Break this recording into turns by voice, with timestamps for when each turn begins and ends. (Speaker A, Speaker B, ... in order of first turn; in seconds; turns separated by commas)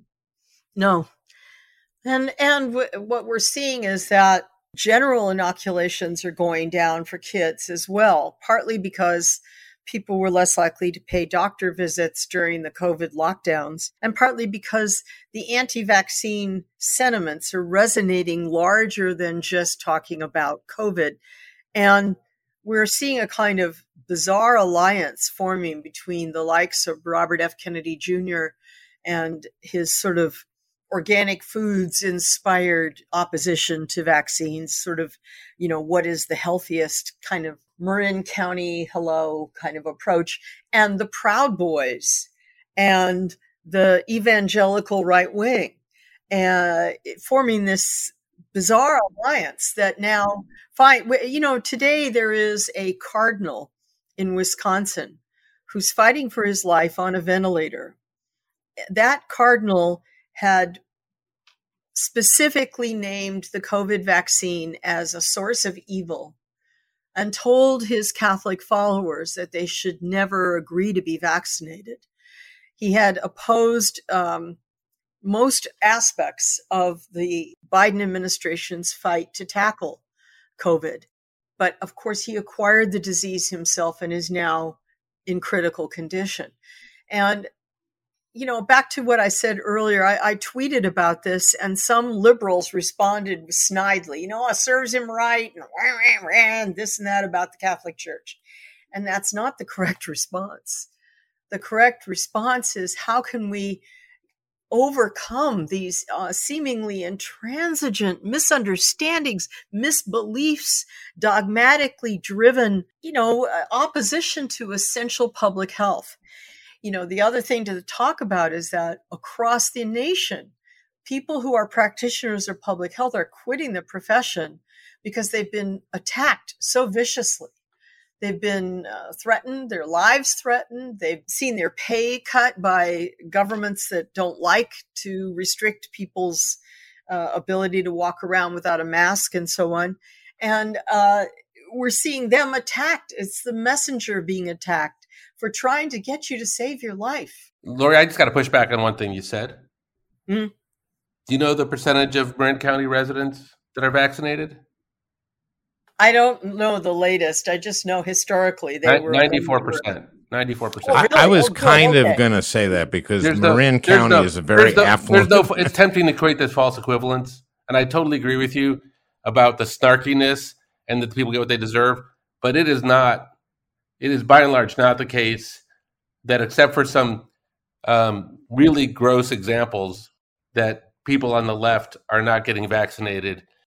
Speaker A: 0.8-1.1, Speaker A: 2.0-21.2, Speaker A: 21.7-45.8, Speaker A: 46.3-58.0, Speaker A: 58.9-60.8, Speaker A: 62.0-66.3, Speaker A: 67.2-72.1, Speaker A: 72.8-74.6, Speaker A: 75.2-80.0, Speaker A: 80.6-81.1, Speaker A: 81.6-86.5, Speaker A: 87.1-87.5, Speaker A: 88.3-98.4, Speaker A: 98.9-100.9, Speaker A: 101.5-103.8, Speaker A: 104.7-116.2, Speaker A: 116.8-120.5, Speaker A: 121.0-127.5, Speaker A: 128.2-147.5, Speaker B: 147.6-149.6, Speaker A: 150.3-150.5, Speaker B: 151.3-154.6, Speaker A: 156.0-159.9, Speaker B: 158.8-161.1, Speaker A: 160.8-162.2, Speaker C: 161.1-165.7, Speaker B: 163.2-173.3, Speaker B: 174.0-175.6, Speaker B: 176.2-177.3, Speaker B: 177.8-183.4